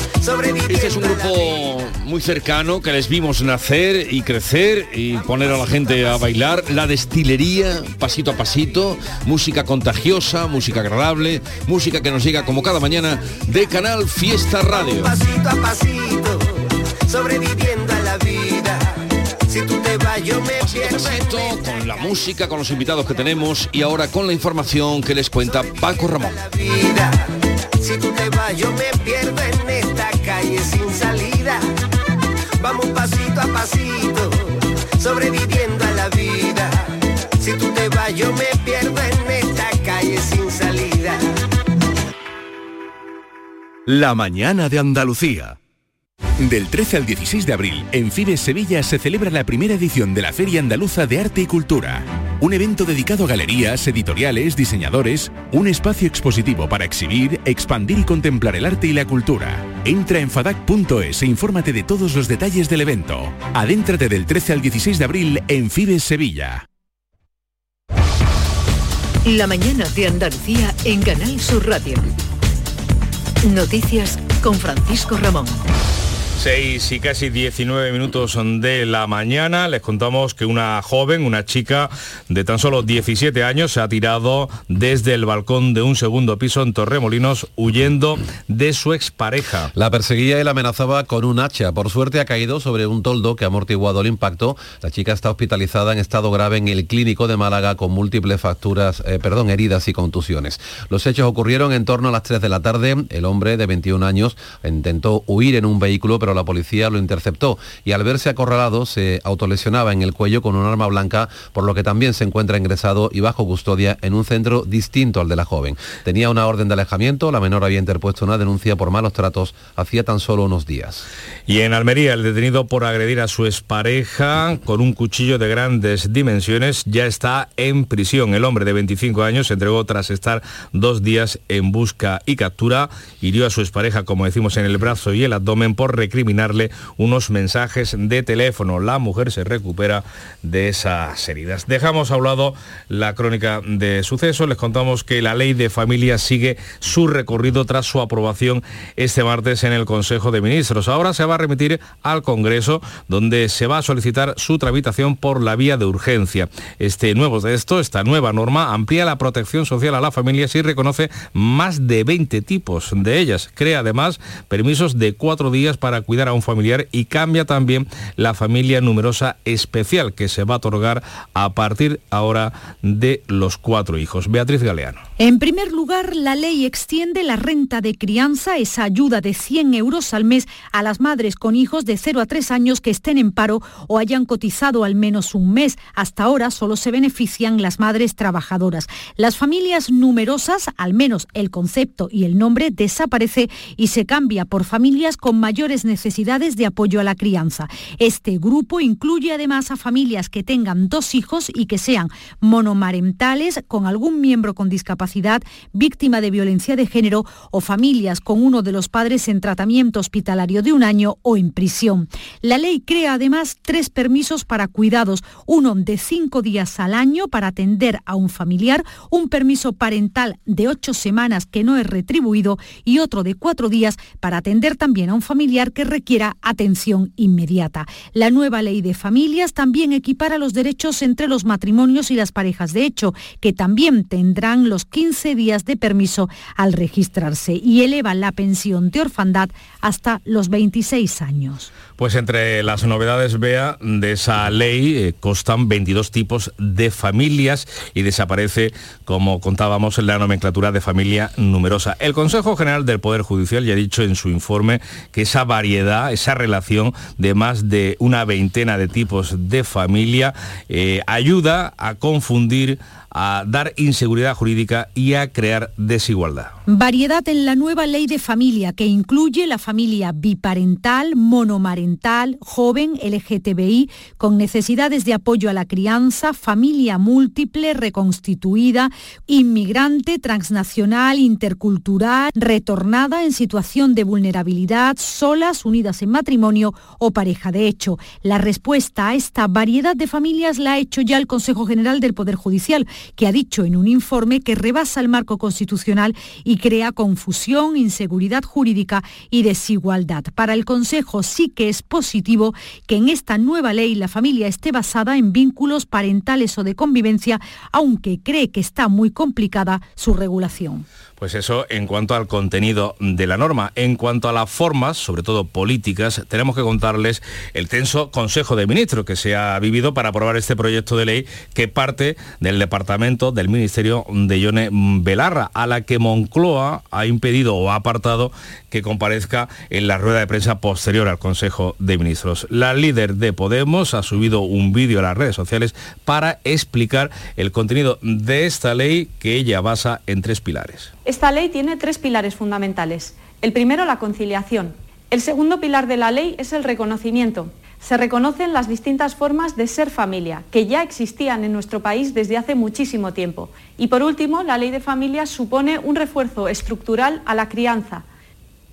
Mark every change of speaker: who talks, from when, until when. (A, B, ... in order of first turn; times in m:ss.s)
0:00.2-0:01.6 A
0:00.7-0:15.1 B
0:15.0-0:16.5 A
0:17.1-0:19.0 A
0:19.5-0:21.6 A
0:20.6-0:26.4 B
0:26.0-0:27.3 A
0:27.8-0:31.6 A
0:32.6-0:41.2 A
0:43.9-0:45.6 C
0:46.4-1:06.6 C
1:09.2-1:12.1 D
1:13.4-1:15.6 D
1:16.4-1:29.7 E
1:29.7-2:01.0 F
2:01.5-2:55.0 E
2:55.2-4:01.7 G
4:02.0-4:26.5 E
4:26.7-5:10.8 G
5:11.2-5:40.9 E
5:41.0-5:58.0 H